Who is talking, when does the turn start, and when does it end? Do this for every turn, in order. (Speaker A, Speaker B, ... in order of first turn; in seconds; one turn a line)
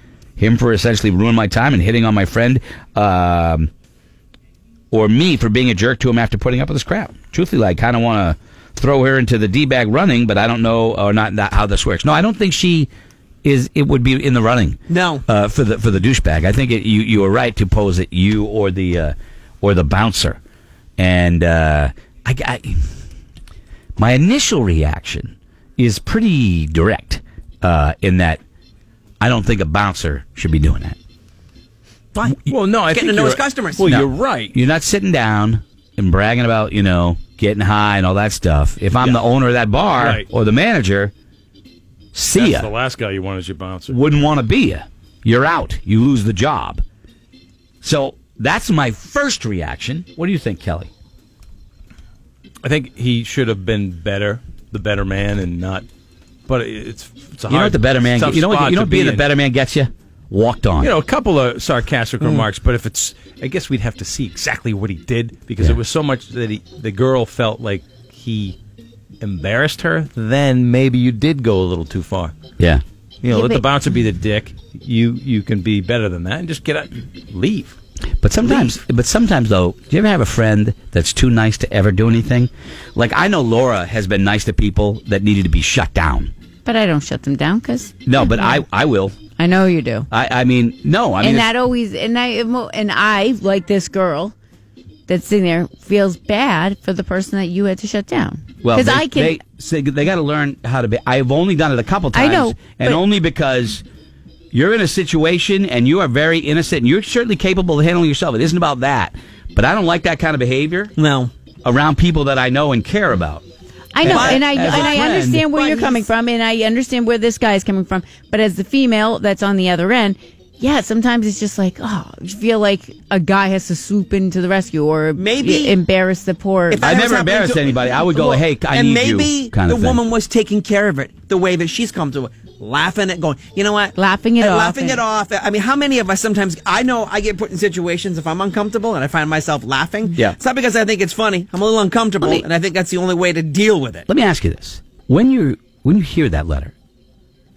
Speaker A: 0.4-3.7
Speaker A: 4.9-12.9
Speaker A: 13.4-20.4
Speaker B: 14.9-15.2
Speaker A: 21.0-22.8
Speaker A: 24.0-28.4
Speaker A: 29.2-31.0
Speaker B: 32.1-33.9
Speaker C: 32.3-34.6
Speaker A: 33.9-41.1
Speaker C: 40.0-40.3
Speaker A: 42.1-42.7
Speaker C: 42.3-44.0
Speaker A: 43.9-46.8
Speaker A: 47.8-50.9
Speaker C: 52.6-55.9
Speaker C: 56.5-59.3
Speaker A: 57.5-60.9
Speaker C: 60.8-68.6
Speaker C: 69.2-72.3
Speaker C: 73.2-77.8
Speaker D: 73.3-73.7
Speaker A: 78.2-86.3
Speaker D: 86.7-88.6
Speaker A: 88.1-89.2
Speaker D: 89.4-90.1
Speaker A: 90.1-91.5
Speaker D: 91.2-94.3
Speaker D: 95.1-99.4
Speaker A: 98.6-103.8
Speaker D: 102.1-103.0
Speaker A: 104.5-110.9
Speaker B: 111.0-111.3
Speaker A: 111.6-113.4
Speaker D: 113.9-126.8
Speaker A: 114.0-115.5
Speaker B: 114.0-116.0
Speaker B: 125.2-125.8
Speaker B: 126.7-144.1
Speaker A: 126.8-130.0
Speaker D: 133.9-135.0
Speaker A: 144.1-146.7